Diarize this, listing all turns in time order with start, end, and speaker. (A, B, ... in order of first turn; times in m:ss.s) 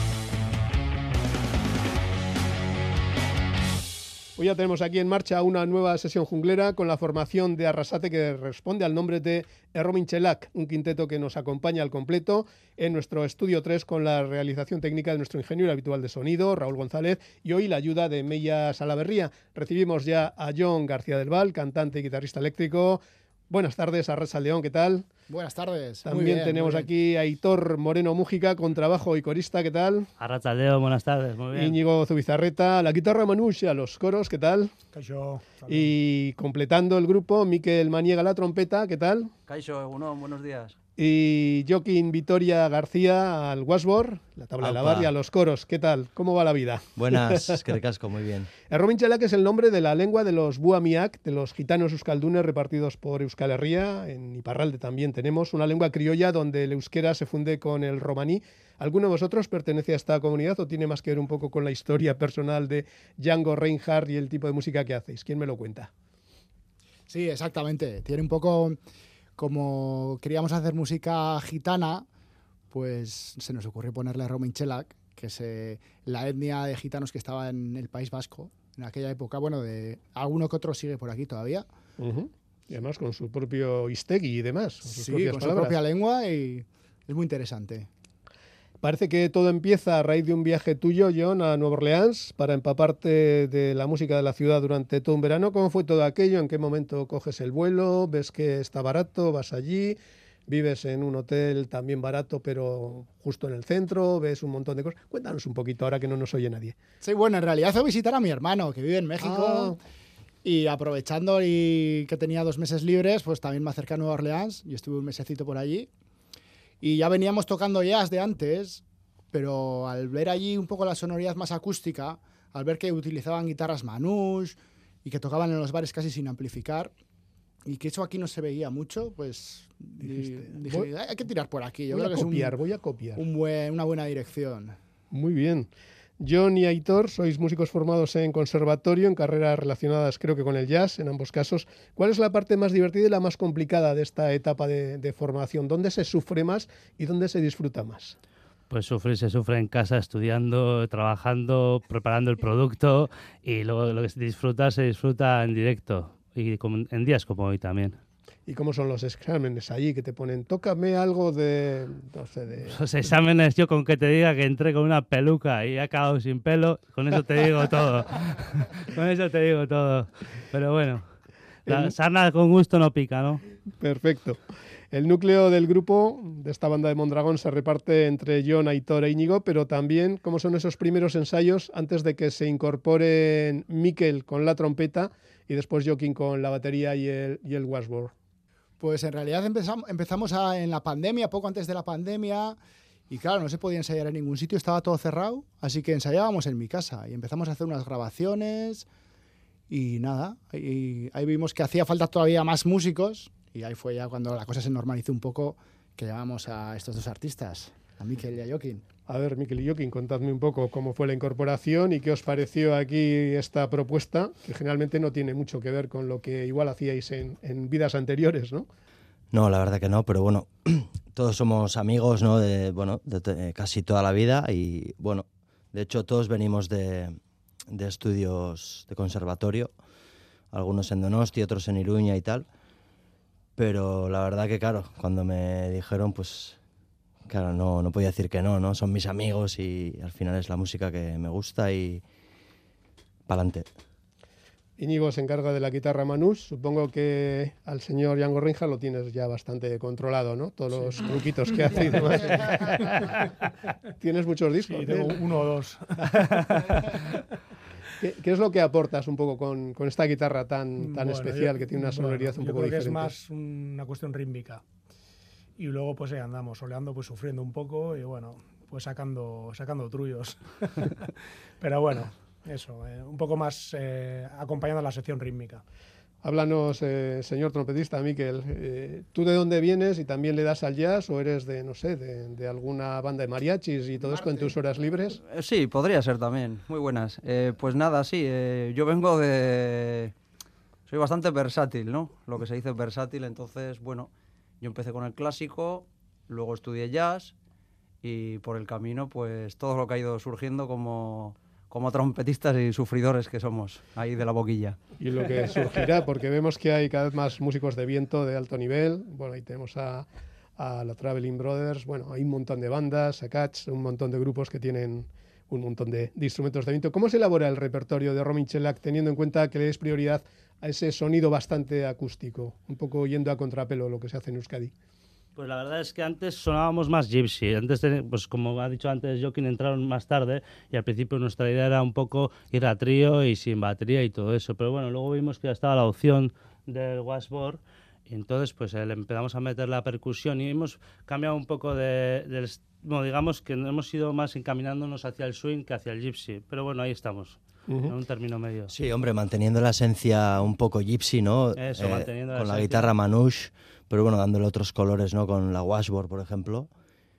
0:04.4-0:25.1 A
0:25.3-0:26.9 B
0:26.1-0:30.1 A
0:30.2-0:31.8 C
0:31.5-0:34.7 A
0:34.9-0:35.9 D
0:35.7-0:39.3 A
0:39.5-0:40.7 E
0:41.0-0:47.6 A
0:44.6-0:45.1 F
0:47.0-0:48.5 F
0:48.7-1:05.9 A
1:07.1-1:08.8 B
1:09.4-1:12.1 B
1:12.7-1:21.7 B
1:22.0-1:25.8 A
1:24.9-1:27.9 B
1:28.8-1:40.0 A
1:40.5-1:46.8 A
1:47.0-1:49.8 B
1:49.2-1:49.8 A
1:50.4-1:55.9 B
1:56.8-2:06.9 B
2:07.6-2:12.6 B
2:10.0-2:10.9 A
2:11.9-2:13.2 A
2:13.2-2:14.8 B
2:15.1-2:15.7 A
2:16.2-2:28.2 A
2:28.7-2:38.0 C
2:38.5-2:42.8 A
2:42.7-2:51.1 C
2:51.7-2:51.9 A
2:51.7-2:53.4 C
2:53.8-3:08.1 A
3:08.8-3:12.6 B
3:13.1-3:18.9 B
3:19.7-3:28.8 B
3:29.1-3:38.7 A
3:39.3-3:47.2 F
3:47.7-3:49.7 F
3:50.5-3:52.5 F
3:53.6-3:56.6 F
3:57.3-4:02.0 F
4:03.3-4:03.7 F
4:04.8-4:13.1 A
4:11.7-4:13.2 D
4:14.0-4:15.2 A
4:14.7-4:17.2 D
4:18.0-4:23.2 A
4:20.8-4:24.6 D
4:25.6-4:35.6 D
4:36.2-4:45.2 A
4:45.3-4:50.1 E
4:50.9-4:54.1 E
4:54.6-4:57.3 E
4:58.0-5:04.8 E
5:05.0-5:24.7 A
5:25.4-5:48.7 C
5:48.7-5:56.7 F
5:51.6-5:52.9 C